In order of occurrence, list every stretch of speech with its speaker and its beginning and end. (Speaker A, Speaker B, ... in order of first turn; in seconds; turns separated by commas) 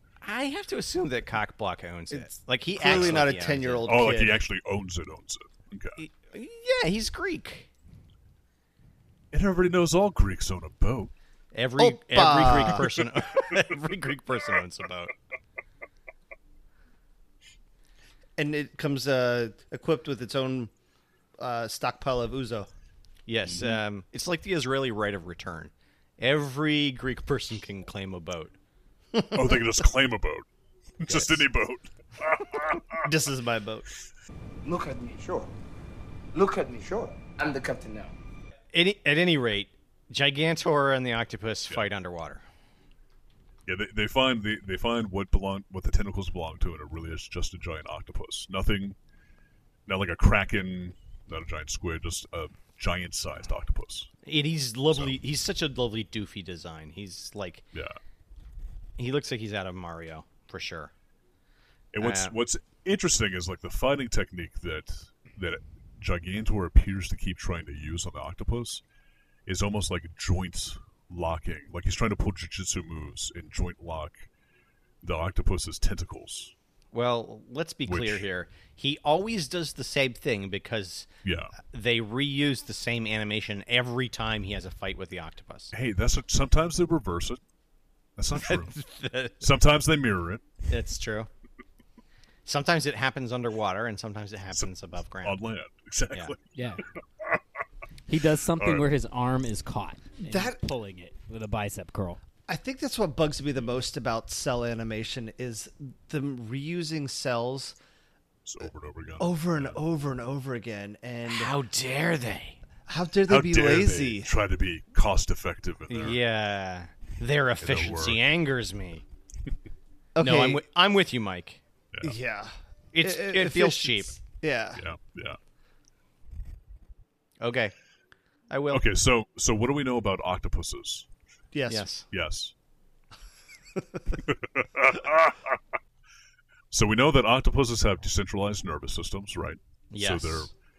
Speaker A: 0.2-3.9, Speaker B: 2.1-4.4, Speaker C: 2.8-3.3, Speaker C: 3.9-6.0, Speaker A: 6.0-7.7, Speaker C: 9.3-11.1, Speaker A: 11.5-15.1, Speaker B: 11.8-12.9, Speaker B: 18.4-20.7, Speaker B: 21.4-22.7, Speaker A: 23.3-28.6, Speaker C: 29.3-30.4, Speaker C: 31.0-33.0, Speaker A: 31.1-31.5, Speaker B: 33.0-33.9, Speaker D: 34.6-35.5, Speaker D: 36.3-38.1, Speaker A: 38.7-42.4, Speaker C: 43.7-49.0, Speaker C: 49.9-54.1, Speaker A: 54.2-57.7, Speaker C: 54.9-55.2, Speaker C: 57.7-58.0, Speaker A: 59.0-60.9, Speaker C: 61.9-68.8, Speaker A: 62.0-62.4, Speaker C: 69.5-74.3, Speaker C: 75.0-76.5, Speaker A: 76.9-85.7, Speaker C: 77.9-78.2, Speaker C: 81.2-81.5, Speaker C: 85.7-87.4, Speaker C: 88.2-88.8, Speaker A: 88.3-89.5, Speaker C: 89.4-90.5, Speaker A: 90.7-91.3, Speaker A: 92.5-95.4, Speaker C: 95.2-96.4, Speaker E: 96.5-96.8, Speaker E: 98.1-102.2, Speaker C: 98.6-98.9, Speaker B: 100.2-100.6, Speaker B: 102.5-107.8, Speaker C: 108.5-109.8, Speaker B: 109.2-111.5, Speaker A: 111.3-112.6, Speaker B: 112.9-114.3, Speaker C: 113.3-116.2, Speaker A: 115.9-119.0, Speaker C: 117.6-118.2, Speaker B: 120.2-120.6, Speaker A: 120.2-121.6, Speaker B: 122.0-124.8, Speaker A: 122.9-124.2, Speaker C: 124.8-125.4, Speaker A: 127.4-127.7, Speaker A: 128.5-128.8, Speaker C: 128.7-131.1, Speaker B: 131.5-131.9, Speaker A: 131.7-132.1, Speaker C: 132.1-132.5, Speaker C: 134.3-135.4, Speaker C: 136.7-140.5, Speaker A: 139.9-140.5